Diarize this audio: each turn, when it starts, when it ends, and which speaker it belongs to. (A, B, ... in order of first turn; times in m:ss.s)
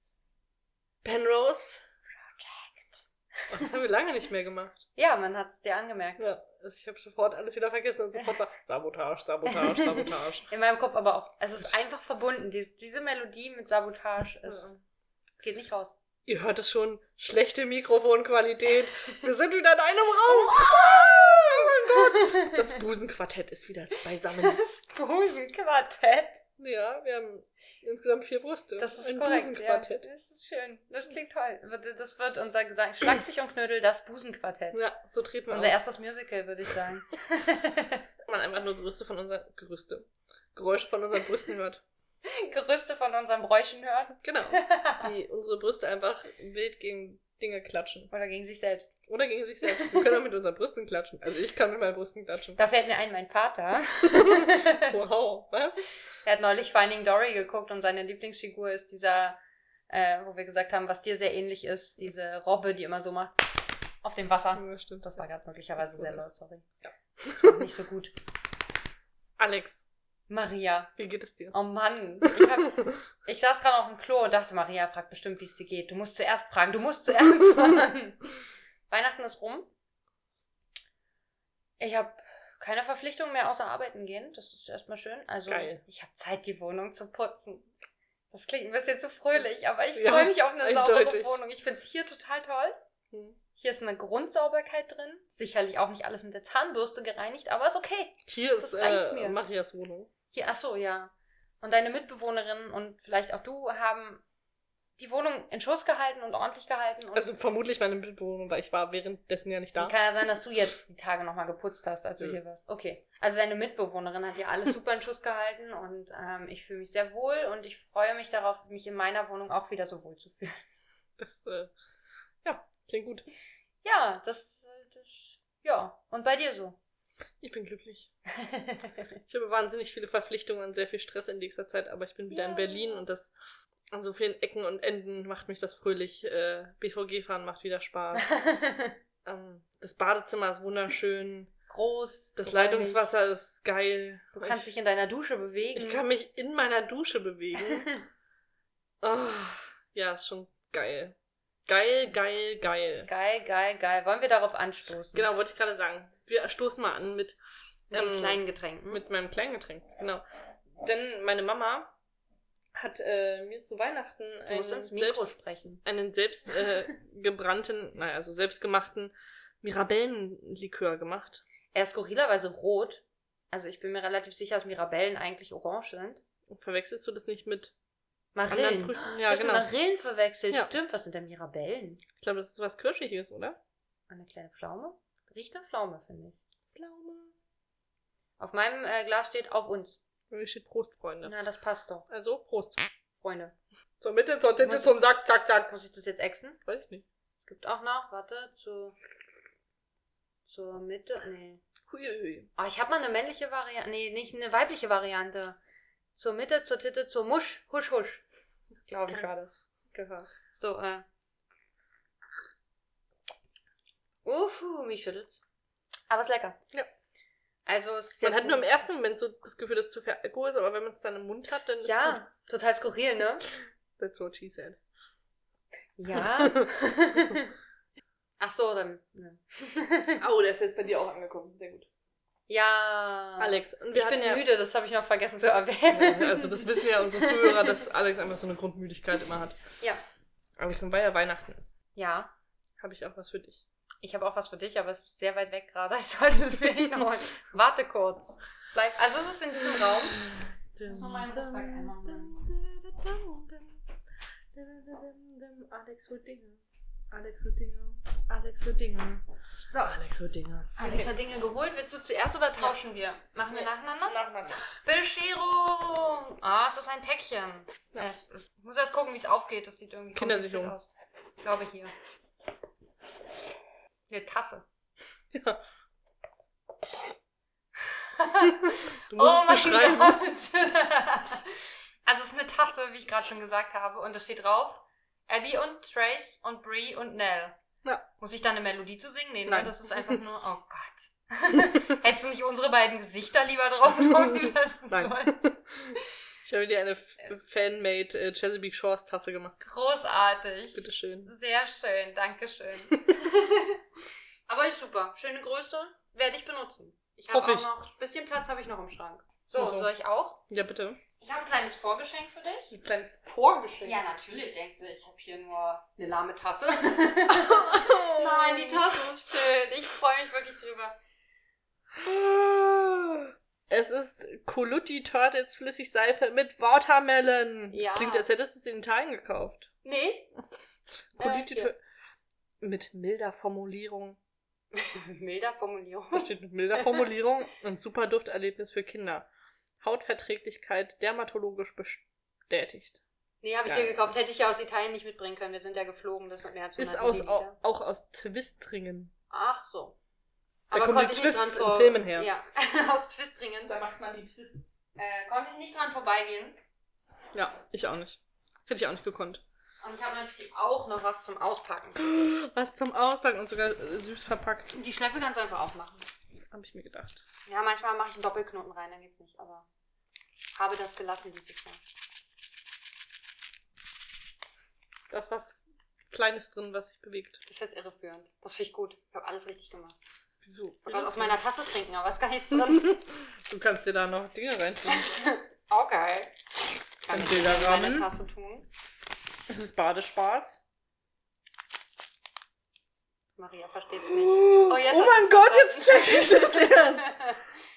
0:01.0-0:01.8 A
0:02.3-0:03.5 B
0:03.5-0:04.9 A
0:05.0-0:06.2 B
0:06.2-0:10.5 A
0:09.4-0:14.7 B
0:14.5-0:14.8 A
0:15.4-0:15.9 B
0:16.2-0:24.6 A
0:20.2-0:22.7 B
0:24.3-0:26.4 B
0:26.6-0:30.1 A
0:28.8-0:34.8 B
0:34.7-0:35.8 A
0:35.5-0:38.0 B
0:38.3-0:41.8 A
0:42.2-0:45.1 B
0:44.2-0:48.1 A
0:48.1-0:49.0 B
0:49.1-0:52.6 A
0:52.6-0:55.0 B
0:54.0-0:55.9 A
0:56.2-0:59.4 B
0:59.9-1:03.5 B
1:04.0-1:06.6 B
1:04.5-1:05.2 A
1:05.8-1:06.2 A
1:06.8-1:07.5 A
1:07.2-1:08.1 B
1:09.4-1:09.8 A
1:10.3-1:10.9 B
1:11.0-1:11.6 A
1:11.5-1:18.3 B
1:12.2-1:13.0 A
1:18.9-1:19.7 B
1:21.8-1:27.7 B
1:25.5-1:25.8 A
1:28.3-1:32.8 B
1:29.9-1:31.3 A
1:33.1-1:33.4 A
1:33.6-1:39.4 B
1:38.3-1:40.1 A
1:40.3-1:44.2 B
1:45.0-1:47.2 B
1:47.1-1:50.0 A
1:49.8-2:00.6 B
2:01.2-2:01.7 A
2:02.4-2:03.2 A
2:03.8-2:06.8 B
2:07.4-2:08.1 A
2:08.3-2:09.1 B
2:09.3-2:13.3 A
2:12.3-2:13.0 B
2:13.9-2:18.3 A
2:18.2-2:19.0 B
2:19.2-2:21.5 A
2:21.7-2:23.1 B
2:22.4-2:24.7 A
2:24.4-2:26.0 B
2:25.7-2:27.9 A
2:27.6-2:28.1 B
2:29.0-2:31.1 A
2:31.7-2:33.1 A
2:33.0-2:35.3 B
2:35.1-2:37.4 A
2:37.9-2:39.0 B
2:37.9-2:40.2 A
2:40.8-2:41.9 A
2:42.8-2:45.3 A
2:44.5-2:45.8 B
2:45.8-2:51.4 A
2:51.7-2:56.2 B
2:56.5-2:57.7 A
2:58.3-3:02.0 B
2:58.5-2:59.7 A
3:02.2-3:03.6 A
3:04.1-3:06.4 B
3:06.7-3:07.3 A
3:08.4-3:10.0 B
3:10.3-3:11.3 A
3:11.2-3:12.0 B
3:12.1-3:12.8 A
3:13.2-3:13.5 B
3:14.0-3:15.7 A
3:14.6-3:14.9 B
3:15.7-3:16.6 B
3:16.6-3:17.0 A
3:17.4-3:18.9 B
3:20.4-3:21.6 B
3:21.9-3:22.5 A
3:22.6-3:25.6 B
3:26.2-3:28.2 B
3:28.9-3:31.0 B
3:34.2-3:35.4 B
3:36.1-3:36.6 B
3:37.6-3:38.6 B
3:38.2-3:42.2 A
3:41.8-3:43.4 B
3:43.5-3:44.8 A
3:46.0-3:47.5 B
3:46.1-3:46.7 A
3:48.4-3:50.2 B
3:50.2-3:51.9 A
3:52.5-3:57.8 B
3:53.4-3:54.4 A
3:55.9-3:59.6 A
4:00.6-4:01.7 A
4:01.9-4:02.3 B
4:02.8-4:03.6 A
4:04.0-4:10.2 B
4:09.6-4:13.8 A
4:10.8-4:12.4 B
4:14.5-4:21.1 A
4:20.8-4:30.9 B
4:23.5-4:24.7 A
4:30.1-4:30.8 A
4:31.4-4:31.9 B
4:34.1-4:34.6 B
4:35.3-4:35.6 A
4:38.0-4:41.5 B
4:38.4-4:40.2 A
4:42.0-4:47.6 B
4:48.2-4:55.4 B
4:49.5-4:50.2 A
4:54.9-4:59.6 A
4:59.6-5:03.8 B
5:00.7-5:01.3 A
5:04.5-5:10.4 B
5:07.3-5:07.7 A
5:09.6-5:09.9 A
5:10.5-5:11.0 A
5:11.2-5:12.7 B
5:12.7-5:14.0 A
5:13.8-5:21.0 B
5:17.3-5:19.4 A
5:22.0-5:29.7 A
5:27.7-5:28.2 B
5:29.8-5:30.3 B
5:31.1-5:31.8 A
5:31.2-5:31.7 B
5:32.6-5:34.2 A
5:34.7-5:37.0 B
5:36.1-5:39.2 A
5:39.8-5:43.0 A
5:43.4-5:47.6 B
5:43.6-5:44.0 A
5:46.8-5:49.1 A
5:49.3-5:50.0 B
5:50.7-5:53.7 B
5:50.7-5:52.3 A
5:53.6-5:54.8 A
5:55.0-5:56.6 B
5:57.3-5:59.4 A
5:59.8-6:02.3 B
6:02.0-6:04.7 A
6:04.7-6:06.1 B
6:06.5-6:07.2 A
6:07.4-6:09.7 B
6:10.6-6:11.8 B
6:15.1-6:15.6 A
6:16.1-6:17.4 A
6:17.4-6:20.0 B
6:20.4-6:21.4 A
6:20.8-6:22.8 B
6:22.7-6:25.1 A
6:24.8-6:26.4 B
6:27.0-6:28.7 B
6:27.1-6:28.1 A
6:29.5-6:30.6 A
6:33.4-6:37.4 B
6:34.0-6:37.2 A